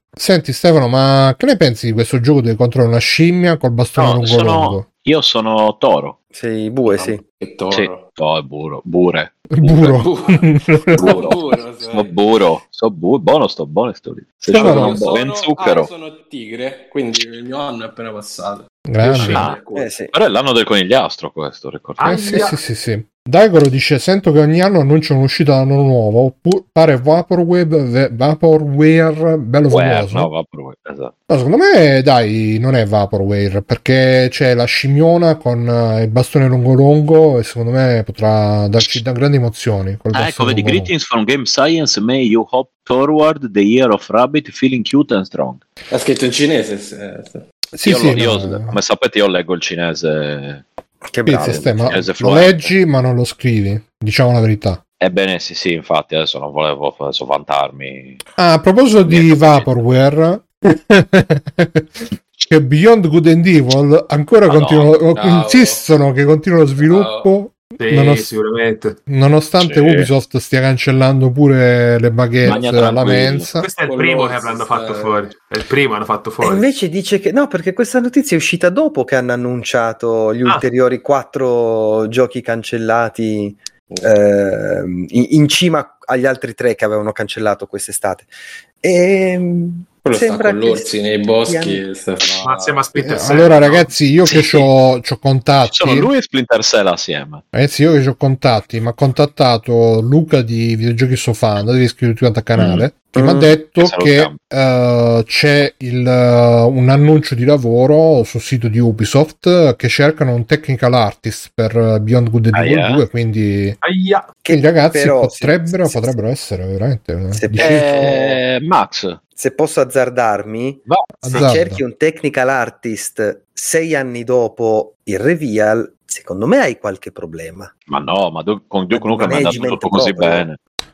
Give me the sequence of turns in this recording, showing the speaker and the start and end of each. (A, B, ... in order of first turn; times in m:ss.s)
0:00.2-0:04.8 A
0:04.0-0:06.2 B
0:06.3-0:07.2 C
0:06.8-0:08.1 D
0:07.7-0:10.0 B
0:09.5-0:11.4 A
0:09.8-0:12.1 D
0:11.0-0:15.9 B
0:14.5-0:15.0 A
0:14.5-0:19.9 D
0:18.9-0:19.4 A
0:19.0-0:19.5 E
0:19.3-0:19.6 B
0:19.7-0:20.1 C
0:20.1-0:22.4 B
0:22.0-0:22.6 E
0:22.0-0:30.3 A
0:29.7-0:31.1 B
0:31.3-0:40.9 A
0:40.1-0:45.6 B
0:45.9-0:47.4 D
0:47.7-0:48.8 A
0:47.8-0:50.6 B
0:51.1-0:52.0 C
0:51.2-0:54.8 A
0:51.3-0:52.7 B
0:55.0-0:58.2 B
0:58.4-1:08.3 A
0:59.0-0:59.7 B
1:04.5-1:04.9 B
1:05.1-1:05.8 D
1:06.8-1:07.3 D
1:07.8-1:09.0 E
1:09.1-1:13.7 A
1:09.6-1:10.1 B
1:12.4-1:13.5 B
1:13.6-1:16.6 E
1:13.8-1:15.3 D
1:16.4-1:28.3 C
1:28.8-1:31.8 C
1:30.0-1:32.8 D
1:32.4-1:33.9 E
1:33.0-1:36.1 A
1:34.2-1:34.7 B
1:35.7-1:37.4 B
1:37.5-1:53.8 A
1:42.6-1:42.8 B
1:43.1-1:43.5 C
1:43.8-1:44.4 B
1:52.5-1:53.0 B
1:53.8-1:54.3 E
1:54.4-1:56.2 C
1:54.5-1:58.1 A
1:57.3-1:58.4 C
1:57.6-1:59.2 B
1:59.4-2:07.7 C
2:00.9-2:01.5 B
2:01.2-2:01.8 A
2:07.9-2:10.6 B
2:08.9-2:10.4 C